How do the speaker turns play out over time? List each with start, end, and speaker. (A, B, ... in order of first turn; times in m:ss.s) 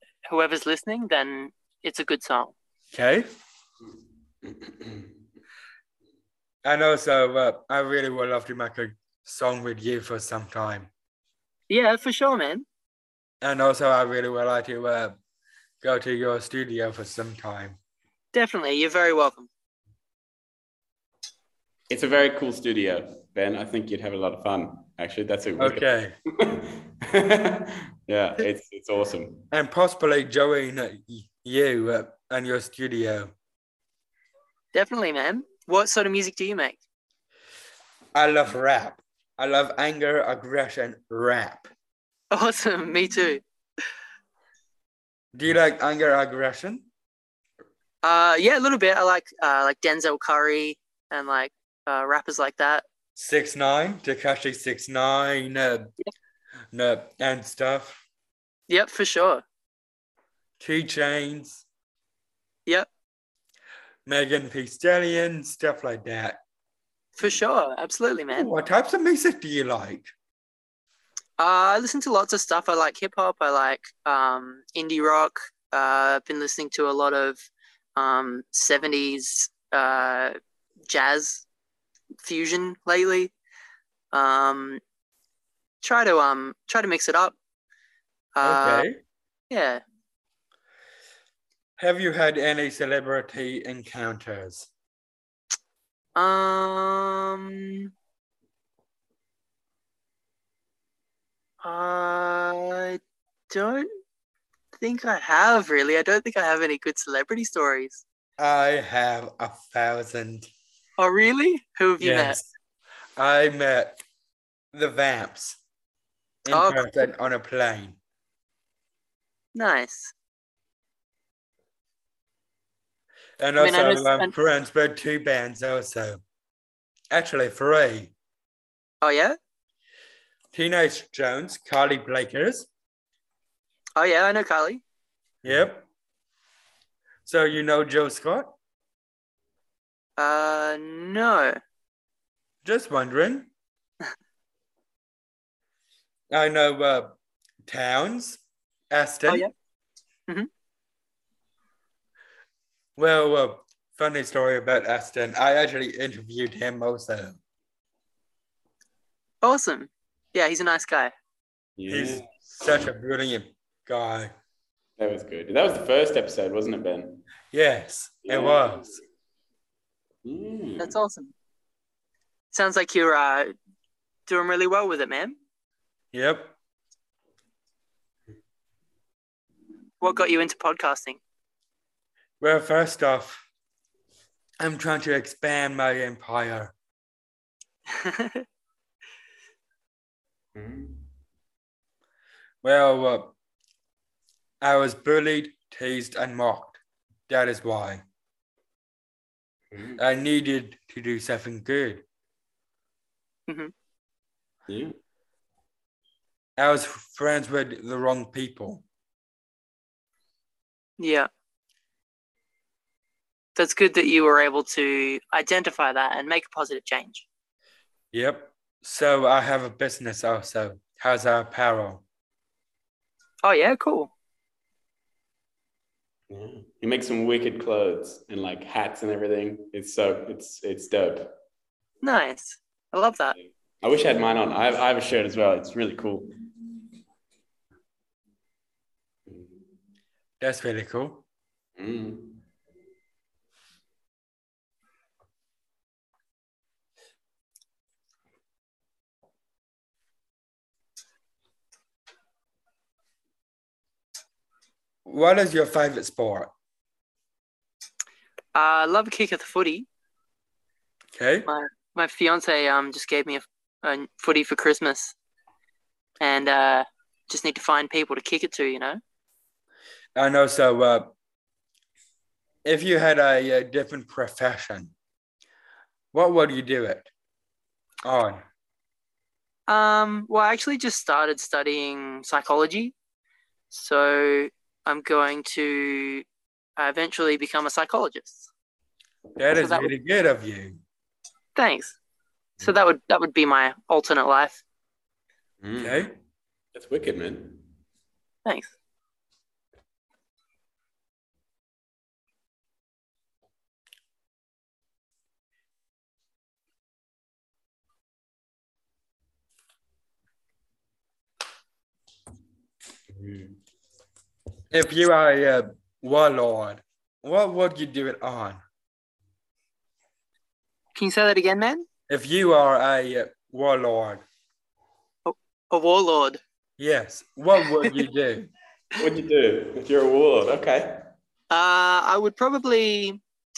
0:00.2-0:02.5 A
0:02.9-0:03.3 B
0:06.6-0:10.9 B
0:11.7-0:12.6 A
0:13.4-0:15.2 B
0:15.8-0:17.8 B
0:18.3-0:19.5 A
0:21.9-0:29.5 C
0:25.6-0:26.1 B
0:29.5-0:33.3 B
0:34.7-0:36.8 A
0:38.1-0:41.7 B
0:42.3-0:43.4 A
0:45.3-0:46.8 B
0:48.0-0:52.8 A
0:53.2-0:55.9 B
0:56.7-0:58.0 B
0:58.7-0:59.4 A
1:00.6-1:01.6 B
1:04.0-1:06.4 B
1:07.2-1:08.5 A
1:08.3-1:10.1 B
1:11.4-1:20.4 A
1:20.9-1:21.4 A
1:22.2-1:23.3 A
1:24.1-1:24.8 A
1:25.8-1:27.3 A
1:28.4-1:28.9 A
1:28.4-1:29.0 B
1:29.5-1:29.8 A
1:31.8-1:34.7 B
1:36.2-1:37.9 A
1:41.6-1:43.0 A
1:43.5-1:43.9 A
1:44.8-1:48.0 A
1:48.4-1:50.5 B
1:51.0-1:52.4 A
1:52.0-1:52.5 B
1:53.2-1:54.0 B
1:54.7-1:55.6 B
1:56.4-1:58.0 B
1:56.5-1:57.0 A
1:59.5-2:00.1 A
2:03.4-2:06.2 B
2:03.6-2:04.3 A
2:07.1-2:08.1 B
2:09.0-2:09.4 A
2:10.5-2:12.7 B
2:14.0-2:14.8 A
2:15.4-2:15.8 B
2:17.2-2:18.5 B
2:20.2-2:21.6 A
2:22.6-2:23.5 B
2:26.3-2:29.4 B
2:33.0-2:37.4 B
2:39.4-2:41.1 A
2:41.8-2:42.4 C
2:41.9-2:44.3 B
2:45.0-2:47.3 C
2:47.5-2:48.9 B
2:48.2-2:48.9 C
2:50.2-2:50.9 C
2:50.8-2:51.3 A
2:52.5-2:53.5 A
2:54.3-2:55.4 A
2:56.1-2:56.5 B
3:00.0-3:01.2 A
3:02.4-3:03.4 B
3:04.6-3:06.7 B
3:07.9-3:08.4 A
3:10.5-3:11.1 C
3:12.6-3:13.3 B
3:14.6-3:18.0 B
3:19.7-3:20.0 C
3:20.0-3:22.0 B
3:24.7-3:24.9 C
3:26.6-3:28.8 B
3:31.0-3:31.3 A
3:33.6-3:37.2 A
3:38.1-3:42.0 B
3:43.4-3:44.1 A
3:46.3-3:51.3 C
3:52.0-3:53.4 A
3:53.4-3:56.3 C
3:59.3-3:59.6 C
4:00.4-4:01.2 B
4:01.8-4:02.4 C
4:15.0-4:16.5 B
4:18.5-4:19.9 A
4:21.1-4:21.5 B
4:21.5-4:25.1 A
4:26.2-4:29.0 A
4:30.1-4:31.1 B
4:32.6-4:34.9 B
4:36.1-4:37.1 B
4:38.0-4:38.4 B
4:39.7-4:42.9 A
4:43.7-4:46.2 A
4:46.8-4:48.5 A
4:49.4-4:50.8 B
4:49.5-4:49.9 A
4:51.6-4:52.0 A
4:52.6-4:54.6 A
4:55.6-4:56.1 C
4:55.8-4:56.1 B
4:56.7-4:57.6 C
4:58.4-4:58.7 A
5:13.1-5:13.6 C
5:14.7-5:18.6 B
5:20.9-5:21.8 A
5:22.1-5:24.2 B
5:25.2-5:26.4 A
5:26.8-5:28.5 B
5:29.0-5:31.1 C
5:31.5-5:33.2 A